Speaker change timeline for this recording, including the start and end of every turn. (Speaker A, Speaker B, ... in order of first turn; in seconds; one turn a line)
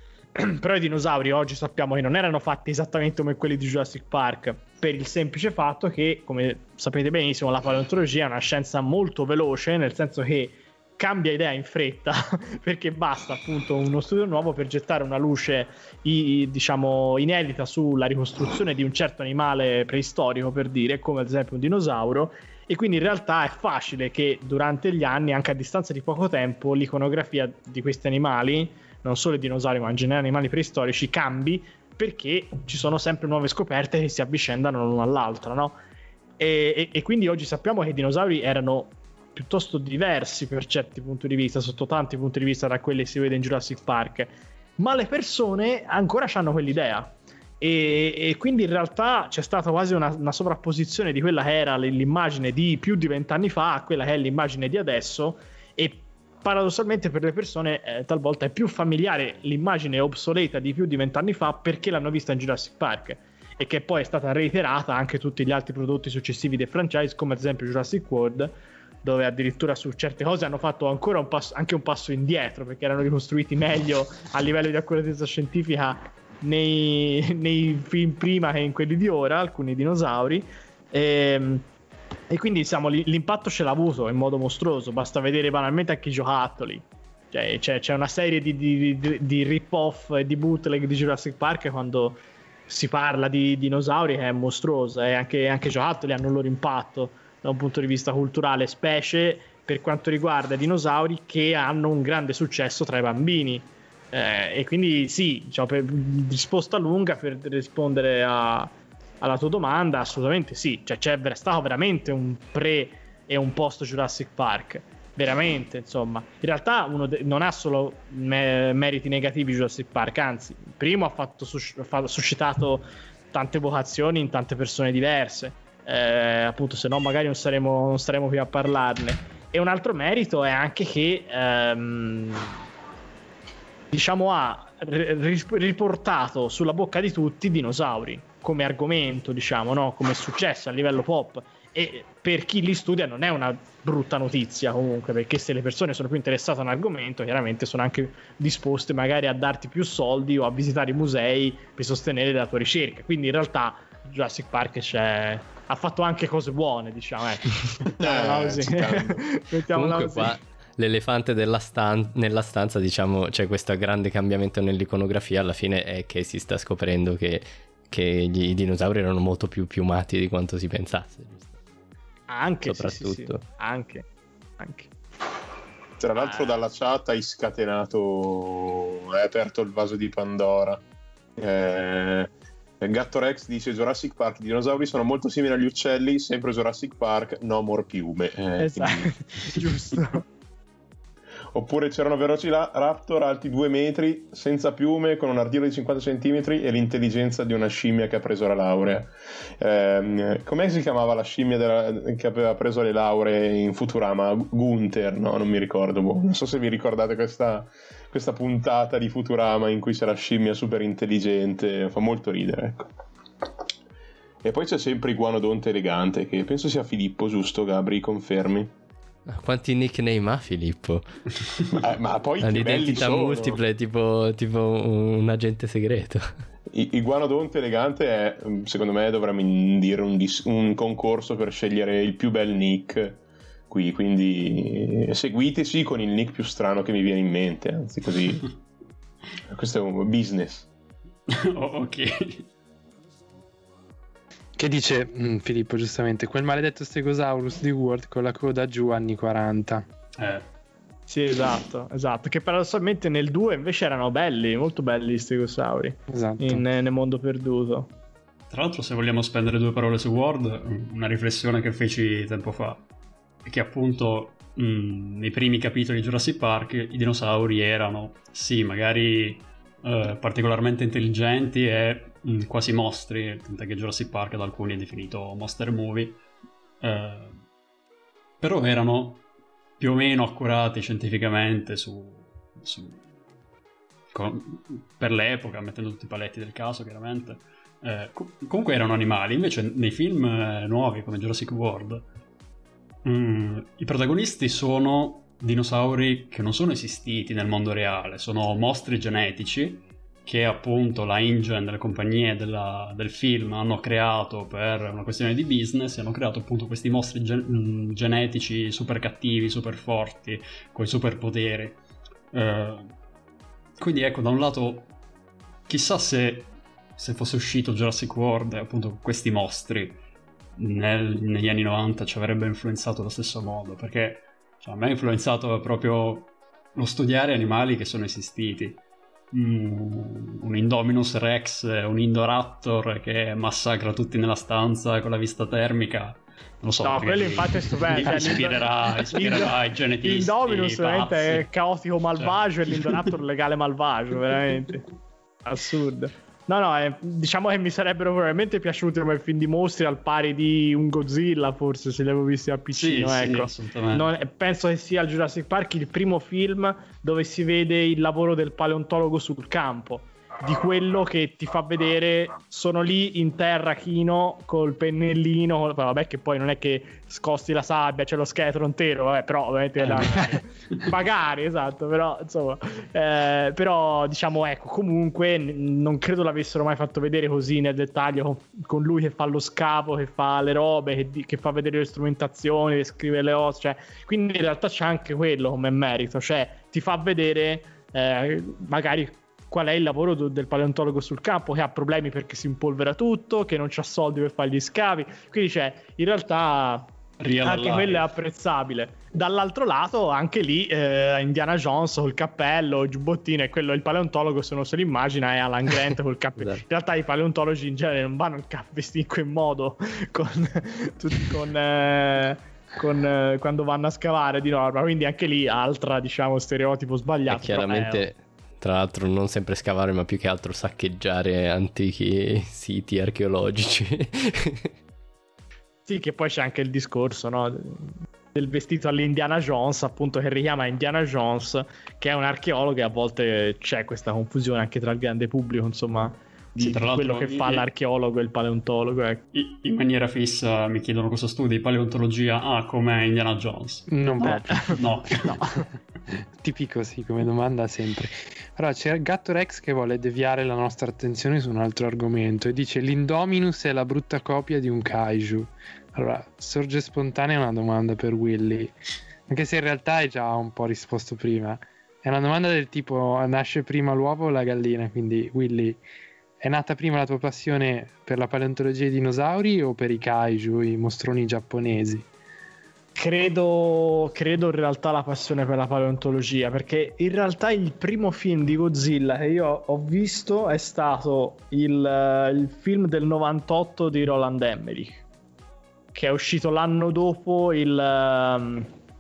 Speaker A: 0.4-35.8
Speaker A: 36.4-68.5
Speaker A: 69.0-81.7
Speaker A: 82.3-132.6
Speaker A: 133.9-160.4
Speaker B: 158.0-159.2
Speaker C: 159.7-171.6
Speaker A: 172.3-174.1
Speaker C: 172.7-173.4
Speaker A: 174.6-174.9
Speaker B: 176.0-180.8
Speaker A: 176.2-176.6
Speaker B: 181.4-189.6
Speaker A: 188.6-190.2
Speaker B: 191.5-212.9
Speaker B: 214.4-218.7
Speaker C: 219.3-221.0
Speaker B: 221.7-223.6
Speaker C: 222.4-226.3
Speaker B: 226.7-238.6
Speaker B: 239.5-240.7
Speaker D: 241.3-242.5
Speaker E: 244.6-249.8
Speaker D: 250.2-250.4
Speaker A: 251.1-257.9
Speaker E: 256.1-256.6
Speaker D: 258.5-262.8
Speaker D: 263.4-276.2
Speaker D: 276.8-277.4
Speaker D: 278.4-279.2
Speaker D: 279.8-283.1
Speaker D: 284.1-292.1
Speaker D: 293.1-311.8
Speaker D: 312.3-312.9
Speaker D: 313.8-314.9
Speaker D: 315.7-320.0
Speaker D: 320.6-341.5
Speaker A: 336.8-344.9
Speaker D: 342.2-343.1
Speaker A: 345.4-396.9
Speaker D: 352.8-354.1
Speaker D: 397.2-398.1
Speaker A: 397.4-418.1
Speaker C: 417.3-424.7
Speaker A: 425.9-439.2
Speaker D: 436.6-437.6
Speaker D: 439.3-445.4
Speaker E: 443.9-444.8
Speaker A: 444.2-445.6
Speaker E: 446.1-458.7
Speaker E: 459.3-465.8
Speaker E: 466.4-472.1
Speaker A: 473.0-485.0
Speaker A: 485.9-488.7